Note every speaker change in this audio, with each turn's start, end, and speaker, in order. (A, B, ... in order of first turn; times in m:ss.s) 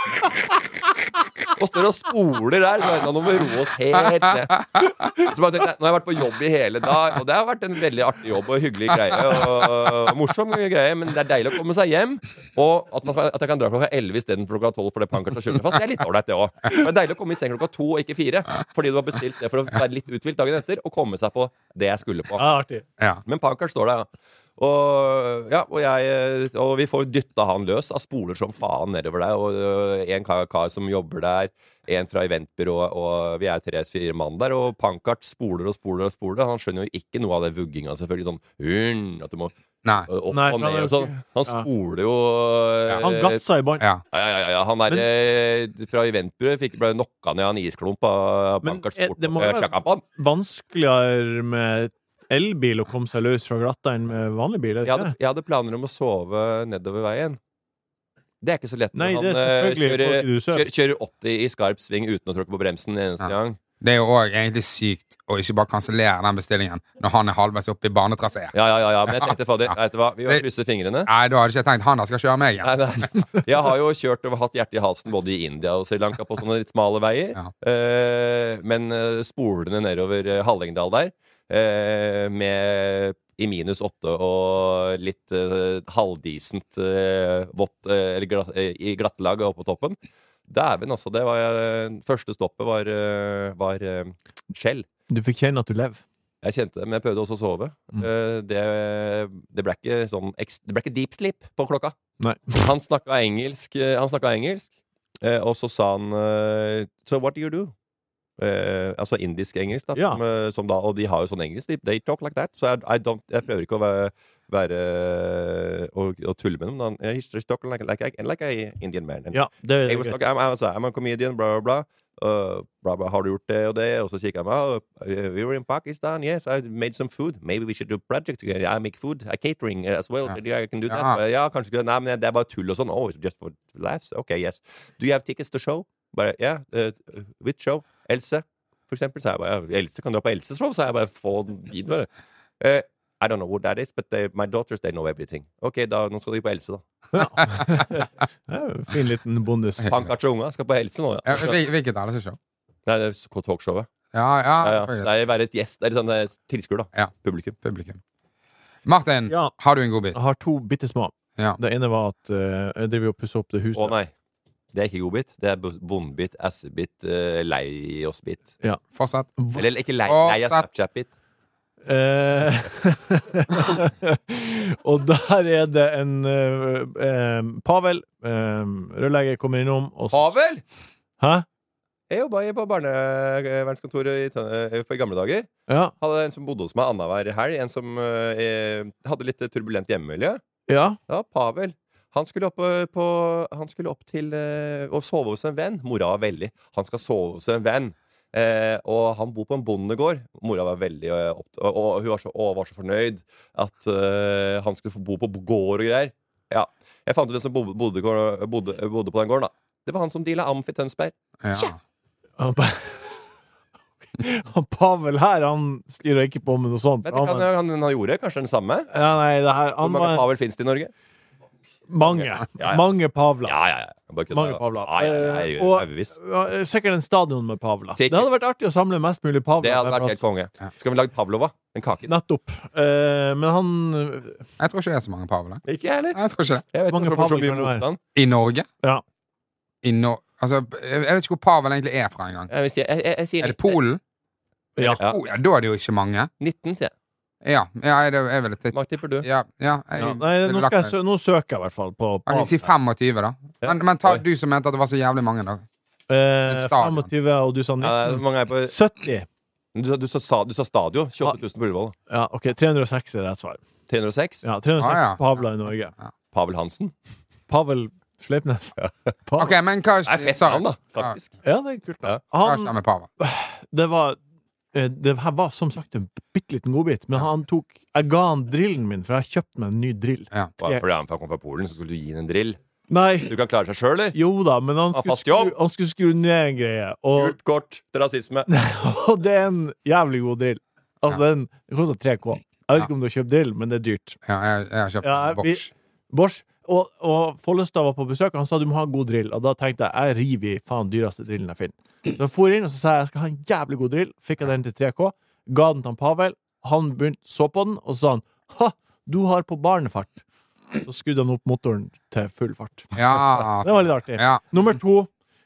0:01.5-0:22.5 A
0:22.4-0:22.8 B
0:23.2-0:24.1 A
0:24.6-0:39.5 A
0:40.1-0:43.4 A
0:40.3-0:41.6 B
0:43.0-0:43.8 B
0:44.1-0:50.0 A
0:48.6-0:55.1 B
0:54.8-0:57.4 A
0:58.4-1:03.6 A
0:58.9-1:00.6 B
1:03.2-1:08.5 C
1:08.5-1:11.1 A
1:09.1-1:09.7 C
1:11.0-1:12.8 C
1:12.6-1:30.0 A
1:30.5-1:34.8 A
1:35.1-1:36.0 B
1:36.4-1:41.9 A
1:42.2-1:42.6 B
1:42.5-1:47.7 A
1:48.4-2:22.1 A
1:49.9-1:50.2 B
1:59.3-2:00.2 B
2:10.9-2:11.2 C
2:22.6-2:26.8 A
2:27.1-2:29.9 B
2:29.9-2:31.6 A
2:31.2-2:32.4 C
2:32.8-2:33.9 A
2:34.1-2:35.1 C
2:34.6-2:37.6 A
2:37.6-2:38.0 C
2:38.8-2:40.2 C
2:39.3-2:39.5 B
2:40.1-2:43.9 B
2:43.7-2:44.1 A
2:44.7-2:48.5 A
2:48.9-2:49.3 C
2:49.4-2:49.6 B
2:49.5-2:51.1 A
2:50.0-2:50.6 C
2:51.8-3:00.3 B
3:00.1-3:00.6 A
3:01.2-3:01.4 B
3:02.1-3:05.5 A
3:05.7-3:05.9 B
3:06.0-3:10.4 A
3:10.7-3:11.0 B
3:11.1-3:31.1 A
3:31.4-3:31.8 C
3:32.4-3:33.3 B
3:34.1-3:37.5 B
3:37.0-3:38.9 A
3:38.9-3:40.2 B
3:39.8-3:40.9 A
3:41.9-3:43.5 B
3:42.0-3:42.8 A
3:43.4-3:46.2 A
3:44.3-3:50.2 B
3:48.0-3:48.3 A
3:49.6-3:52.1 A
3:52.1-3:54.4 B
3:54.6-3:56.6 C
3:55.6-3:56.2 A
3:56.7-3:58.0 A
3:56.9-3:57.8 B
3:58.1-3:58.7 C
3:59.8-4:02.5 C
4:02.5-4:03.8 A
4:03.4-4:04.0 C
4:04.8-4:06.3 C
4:06.4-4:06.9 A
4:07.4-4:10.9 C
4:08.7-4:09.3 A
4:10.0-4:12.6 B
4:12.3-4:15.6 C
4:13.6-4:14.2 A
4:16.1-4:19.2 B
4:16.5-4:17.1 C
4:17.8-4:18.7 A
4:19.7-4:21.9 A
4:22.1-4:23.6 B
4:23.9-4:24.4 A
4:24.4-4:25.9 B
4:24.8-4:25.2 C
4:26.3-4:26.9 A
4:27.5-4:29.5 B
4:29.4-4:31.2 C
4:30.0-4:31.4 A
4:31.4-4:34.2 B
4:32.4-4:33.1 C
4:34.7-4:40.8 B
4:40.6-4:42.6 A
4:42.9-4:43.3 B
4:43.2-4:44.2 A
4:44.1-4:47.3 B
4:44.9-4:45.5 A
4:47.2-4:48.5 A
4:48.5-4:54.2 B
4:54.2-4:55.7 C
4:55.0-5:10.2 B
5:10.8-5:15.1 B
5:12.9-5:14.4 C